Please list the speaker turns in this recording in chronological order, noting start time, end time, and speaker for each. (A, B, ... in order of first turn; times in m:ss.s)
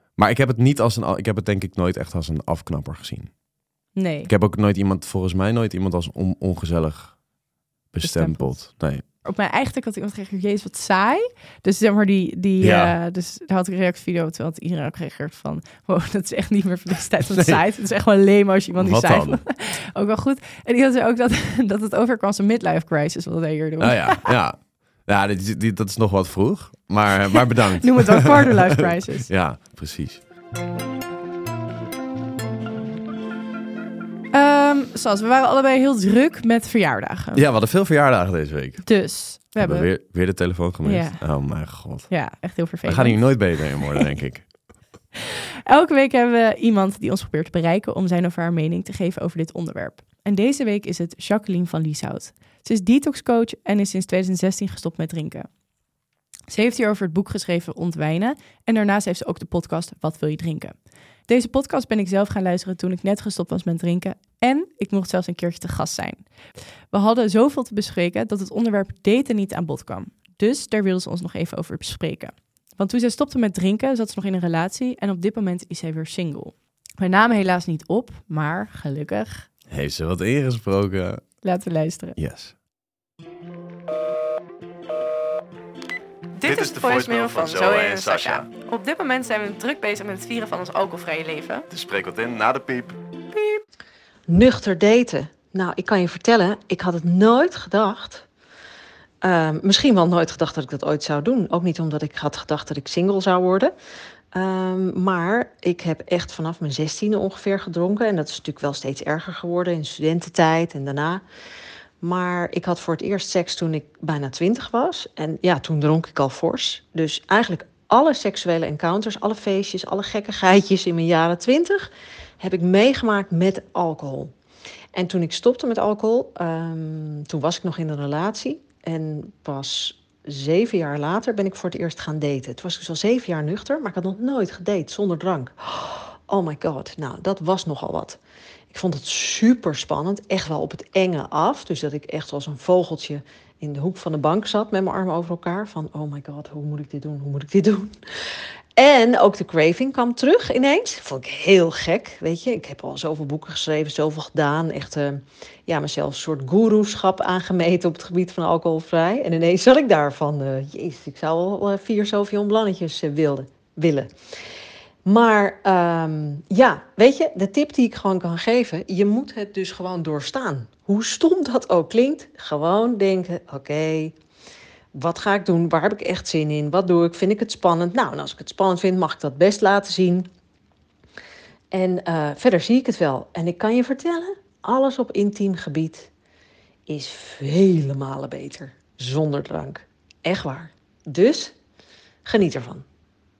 0:00.2-0:03.3 A
0:03.9-0:04.3 B
0:04.3-0:07.2 A
0:07.9-0:09.0 A
0:08.0-0:08.5 B
0:09.1-0:24.3 B
0:12.6-0:12.9 A
0:17.3-0:17.6 A
0:18.8-0:19.4 A
0:23.8-0:30.2 A
0:27.3-0:29.3 B
0:34.3-0:37.4 B
0:37.3-0:38.9 A
0:38.8-0:39.9 B
0:39.6-0:42.1 A
0:40.8-0:41.2 B
0:42.1-0:43.4 B
0:42.8-0:44.5 A
0:45.2-0:55.5 B
0:56.5-1:00.7 B
1:01.3-1:06.2 B
1:06.9-1:19.5 B
1:19.7-1:21.2 A
1:21.4-1:22.2 B
1:22.2-1:22.5 A
1:26.4-1:31.7 B
1:26.4-1:28.5 A
1:31.7-1:33.0 A
1:33.3-1:33.6 B
1:34.3-1:38.2 C
1:39.2-1:43.7 C
1:44.3-1:51.2 C
1:52.0-2:01.9 C
2:02.4-2:04.3 C
2:04.9-2:18.2 C
2:18.7-2:27.9 C
2:28.8-2:44.1 C
2:45.0-2:54.1 C
2:54.9-3:00.3 C
3:01.7-3:06.1 C
3:06.9-3:11.5 C
3:12.2-3:12.8 C